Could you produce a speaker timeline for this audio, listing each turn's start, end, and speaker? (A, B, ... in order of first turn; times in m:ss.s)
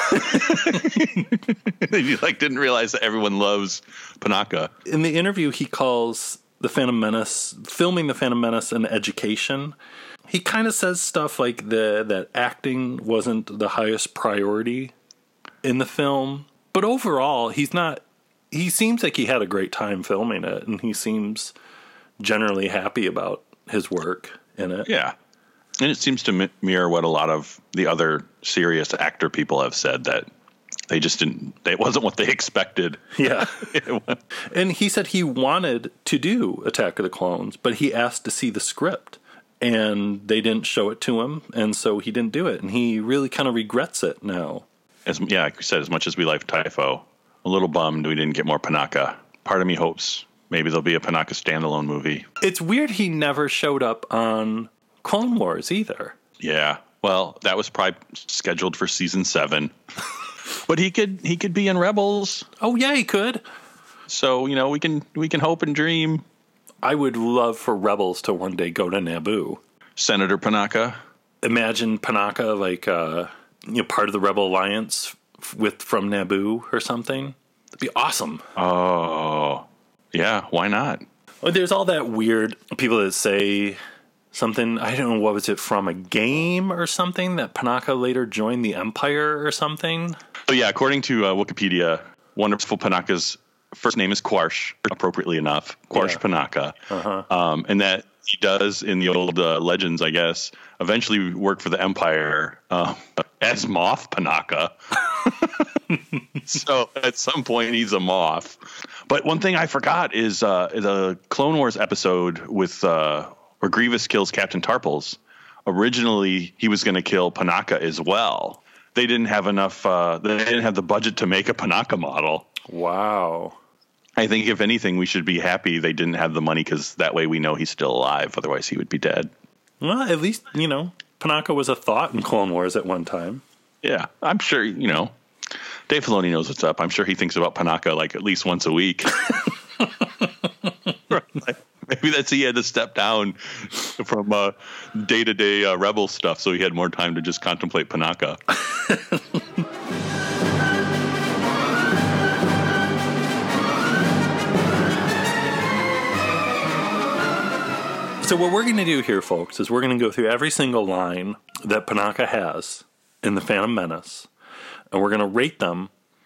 0:00.2-0:04.7 A
0:04.9-0:09.8 B
0:10.3-0:14.9 B
0:15.6-0:21.5 B
0:22.2-0:24.9 B
0:24.9-0:25.1 A
0:25.8-0:30.3 A
0:30.9-0:34.2 A
0:33.2-0:33.6 B
0:34.5-0:44.6 B
0:45.0-0:52.3 A
0:52.4-0:56.1 B
0:56.4-0:59.7 A
1:00.6-1:02.5 A
1:02.6-1:03.4 B
1:04.1-1:06.2 A
1:06.8-1:09.6 B
1:10.0-1:11.0 A
1:11.4-1:18.4 B
1:18.6-1:21.0 A
1:21.4-1:23.8 B
1:24.3-1:30.2 B
1:30.5-1:36.8 A
1:35.9-1:36.2 B
1:36.9-1:37.3 B
1:37.3-1:45.4 A
1:46.4-2:02.5 A
2:02.7-2:03.6 B
2:04.2-2:09.3 A
2:09.8-2:13.4 B
2:13.8-2:15.1 A
2:15.9-2:19.2 A
2:21.1-2:28.4 A
2:28.8-2:29.2 B
2:38.2-2:44.3 B
2:44.9-2:45.9 B